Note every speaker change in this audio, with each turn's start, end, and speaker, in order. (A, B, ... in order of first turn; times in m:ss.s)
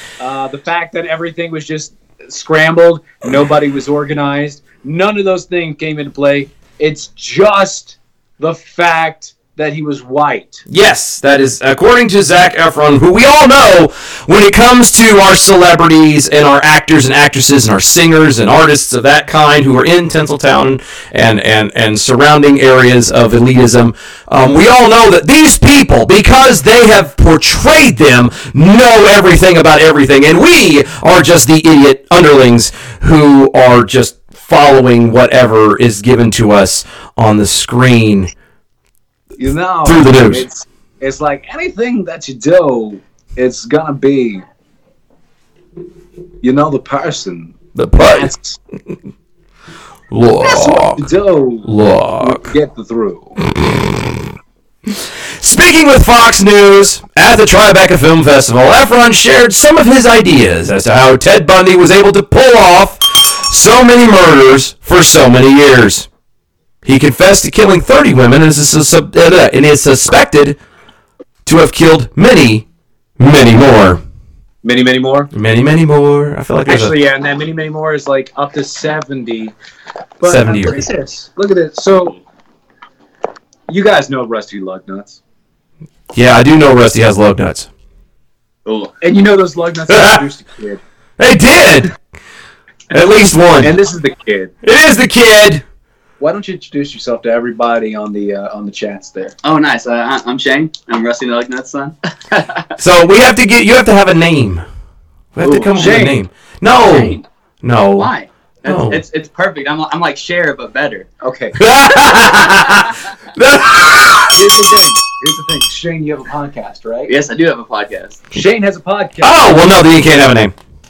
0:00.2-0:10.6 A
0:10.7-0:38.3 B
0:39.4-0:44.4 A
0:39.8-0:40.4 B
0:46.4-0:48.6 A
0:47.7-0:48.3 B
0:50.1-0:51.1 B
0:50.4-0:53.4 A
0:51.6-0:52.5 B
0:55.4-1:06.1 B
1:06.8-1:10.6 B
1:11.4-1:12.6 B
1:13.2-1:14.0 B
1:14.6-1:15.3 A
1:15.3-1:17.0 B
1:16.7-1:19.5 A
1:20.2-1:22.2 A
1:20.2-1:20.9 B
1:23.7-1:25.2 A
1:26.1-1:27.7 B
1:28.6-1:28.9 C
1:29.0-1:30.8 A
1:29.9-1:30.2 B
1:31.2-1:31.9 B
1:32.9-1:33.8 B
1:33.6-1:34.5 A
1:34.6-1:35.6 B
1:36.2-1:39.3 A
1:39.4-1:42.6 C
1:42.8-1:44.6 B
1:45.3-1:48.1 B
1:45.4-1:45.8 C
1:45.7-1:46.2 A
1:46.8-1:47.2 C
1:48.0-1:51.1 C
1:48.6-1:49.0 B
1:51.2-1:51.6 A
1:51.6-1:54.5 B
1:54.3-1:57.1 A
1:57.1-1:58.2 C
1:58.3-1:59.6 A
1:59.2-2:00.5 B